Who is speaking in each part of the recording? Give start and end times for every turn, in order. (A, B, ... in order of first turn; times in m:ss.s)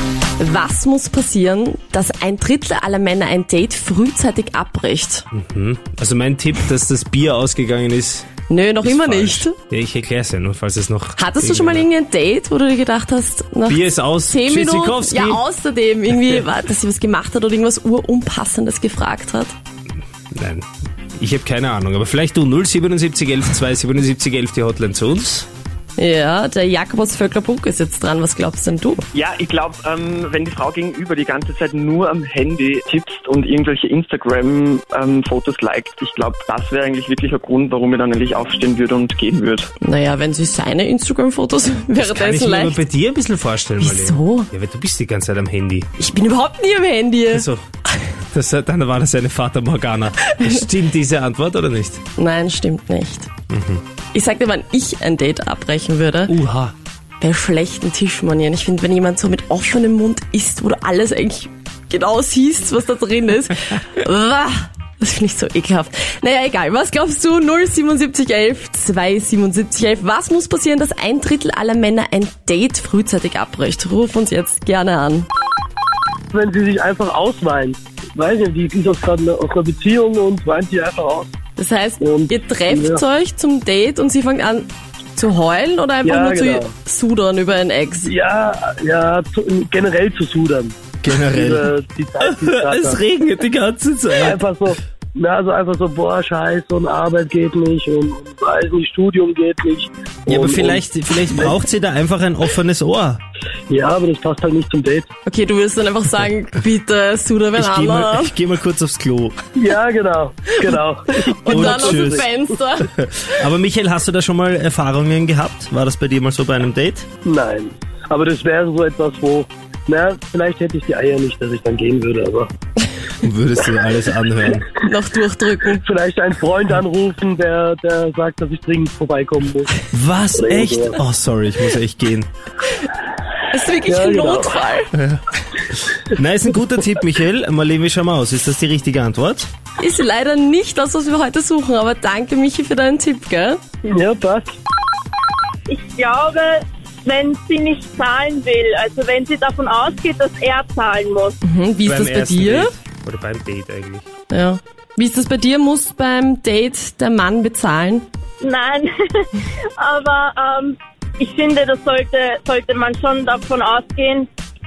0:00.4-0:05.3 A
0:05.3-0:08.3 B
0:08.5-0:09.6 A
0:08.8-0:11.9 B
0:11.2-0:19.5 A
0:13.7-0:15.4 B
0:20.3-0:25.5 B
0:26.0-0:29.0 A
0:29.1-0:39.7 C
0:39.8-0:42.8 A
0:42.0-0:45.9 B
0:43.8-0:44.5 A
0:46.0-0:47.5 A
0:47.3-0:47.6 B
0:48.3-0:52.0 B
0:52.2-0:53.3 A
0:53.5-0:53.8 B
0:54.1-0:56.3 A
0:56.3-0:56.7 B
0:57.2-1:15.3 A
1:16.3-1:21.3 D
1:21.6-1:28.1 A
1:22.0-1:23.0 D
1:26.0-1:26.7 D
1:28.0-1:30.8 D
1:31.0-1:31.7 B
1:31.3-1:33.0 D
1:32.2-1:34.4 B
1:34.2-1:41.5 D
1:40.3-1:43.2 B
1:43.7-1:45.1 D
1:45.3-1:48.3 A
1:47.6-1:49.4 B
1:49.6-1:52.2 D
1:50.6-1:52.9 A
1:51.5-1:52.3 B
1:52.8-1:57.1 B
1:57.2-2:02.5 D
2:03.2-2:04.7 B
2:04.8-2:05.8 A
2:05.8-2:09.7 D
2:09.9-2:12.3 B
2:10.4-2:11.0 D
2:13.5-2:14.9 A
2:13.8-2:14.6 D
2:14.9-2:19.5 B
2:19.8-2:23.6 A
2:23.9-2:24.5 D
2:25.7-2:31.4 E
2:31.4-2:32.7 A
2:31.8-2:34.1 B
2:34.3-2:38.1 A
2:38.4-2:44.3 E